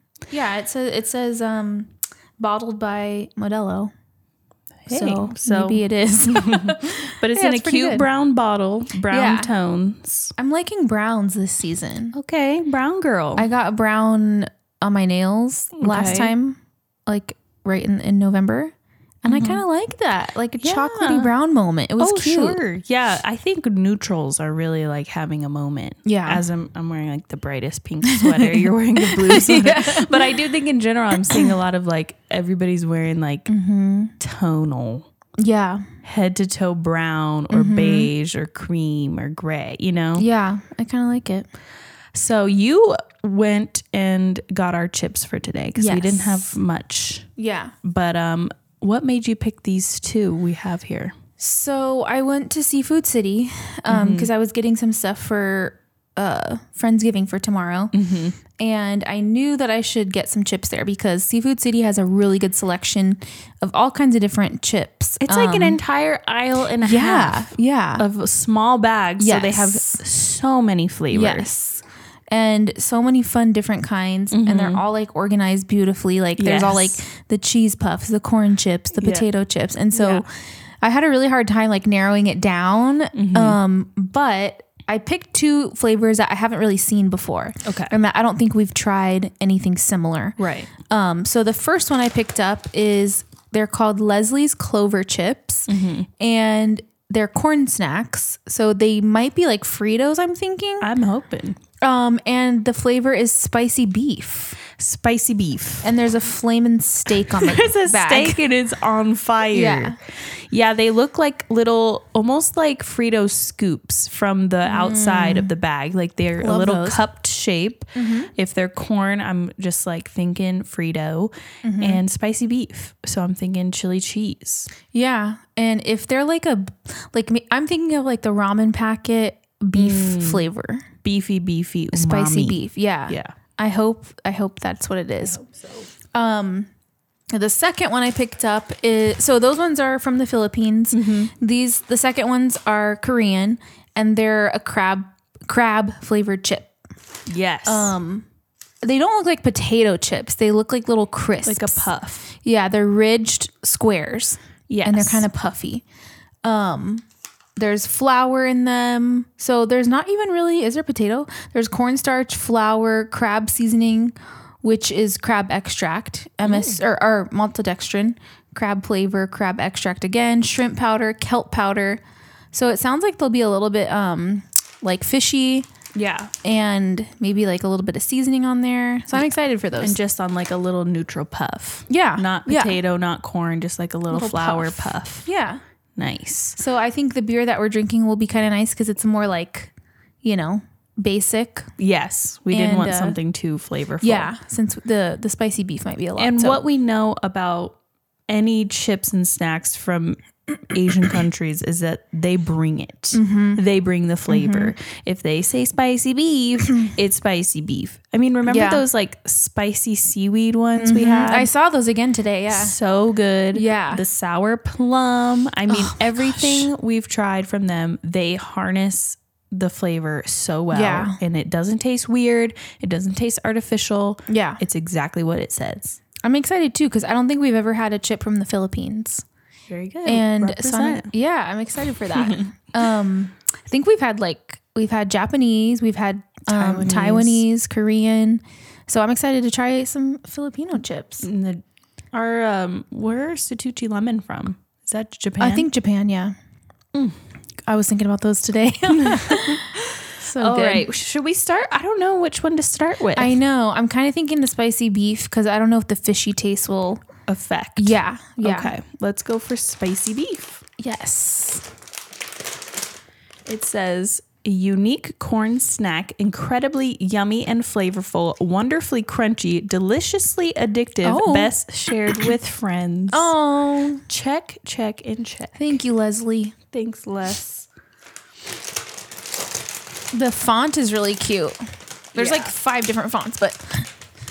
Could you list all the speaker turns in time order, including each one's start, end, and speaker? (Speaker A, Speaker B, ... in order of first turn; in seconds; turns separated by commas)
Speaker A: 0.3-3.9, Speaker B: 4.8-10.3, Speaker A: 4.9-8.1, Speaker A: 9.1-9.5, Speaker A: 10.4-12.2, Speaker B: 12.1-13.4, Speaker A: 13.4-22.6, Speaker B: 15.8-16.3, Speaker B: 19.3-19.6, Speaker B: 20.6-21.3, Speaker B: 22.0-33.5, Speaker A: 26.1-26.4, Speaker A: 28.0-30.3, Speaker A: 33.5-34.1, Speaker B: 34.2-35.1, Speaker A: 35.4-35.8, Speaker B: 36.0-40.3, Speaker A: 37.5-38.1, Speaker A: 40.2-41.5, Speaker B: 42.1-47.3, Speaker A: 45.8-46.6, Speaker A: 47.4-47.7, Speaker B: 47.8-51.1, Speaker A: 51.4-57.9, Speaker B: 53.9-54.3, Speaker B: 57.9-58.4, Speaker A: 58.6-65.8, Speaker B: 65.2-71.5, Speaker A: 66.8-68.0, Speaker A: 69.2-70.0, Speaker A: 71.1-80.3, Speaker B: 74.3-74.8, Speaker B: 76.4-77.0, Speaker B: 78.9-79.2, Speaker B: 79.9-80.2, Speaker A: 80.8-100.9, Speaker B: 83.1-83.6, Speaker B: 87.6-87.9, Speaker B: 90.4-90.7, Speaker B: 95.7-96.1, Speaker B: 100.8-101.6, Speaker A: 101.8-104.6, Speaker B: 104.7-105.9, Speaker A: 105.8-108.4, Speaker B: 107.1-124.7, Speaker A: 109.5-110.0, Speaker A: 114.7-115.5, Speaker A: 116.4-117.0, Speaker A: 117.9-118.3, Speaker A: 121.6-122.0, Speaker A: 124.9-130.9, Speaker B: 129.7-130.5, Speaker B: 131.0-133.3, Speaker A: 131.9-135.4, Speaker B: 135.2-135.9, Speaker A: 136.1-136.7, Speaker A: 137.3-146.7, Speaker B: 140.9-141.3, Speaker B: 147.2-147.9, Speaker A: 147.6-148.2, Speaker A: 148.8-155.8, Speaker B: 151.4-152.2, Speaker B: 154.7-155.2, Speaker A: 156.4-157.0, Speaker A: 157.6-172.0, Speaker B: 166.4-166.8, Speaker A: 172.5-175.7, Speaker B: 175.9-176.3, Speaker A: 176.4-180.0, Speaker B: 179.8-185.2, Speaker A: 181.9-182.8, Speaker A: 184.1-185.6, Speaker B: 185.9-186.6, Speaker A: 186.6-191.7, Speaker B: 191.8-194.3, Speaker A: 192.5-193.2, Speaker A: 194.0-196.6, Speaker B: 196.2-197.8, Speaker B: 198.3-211.5, Speaker A: 203.1-203.6, Speaker A: 204.3-204.7, Speaker A: 208.5-208.8, Speaker A: 210.8-212.8, Speaker B: 212.5-226.0, Speaker A: 213.5-214.0, Speaker A: 215.7-216.7, Speaker A: 220.7-221.2, Speaker A: 224.3-224.6, Speaker A: 226.2-229.2, Speaker B: 229.7-231.1, Speaker A: 230.0-241.3, Speaker B: 232.1-232.4, Speaker B: 236.5-237.4, Speaker B: 241.2-245.7, Speaker A: 245.4-246.3, Speaker A: 247.7-250.9, Speaker B: 248.9-253.3, Speaker A: 253.1-257.0, Speaker B: 257.3-260.6, Speaker A: 257.8-258.7, Speaker A: 260.8-261.6, Speaker B: 263.4-273.3, Speaker A: 271.0-271.5, Speaker A: 273.1-274.0, Speaker B: 274.1-275.7, Speaker A: 275.6-276.6, Speaker B: 276.7-277.7, Speaker A: 280.1-281.6, Speaker A: 282.1-283.9, Speaker B: 282.1-282.5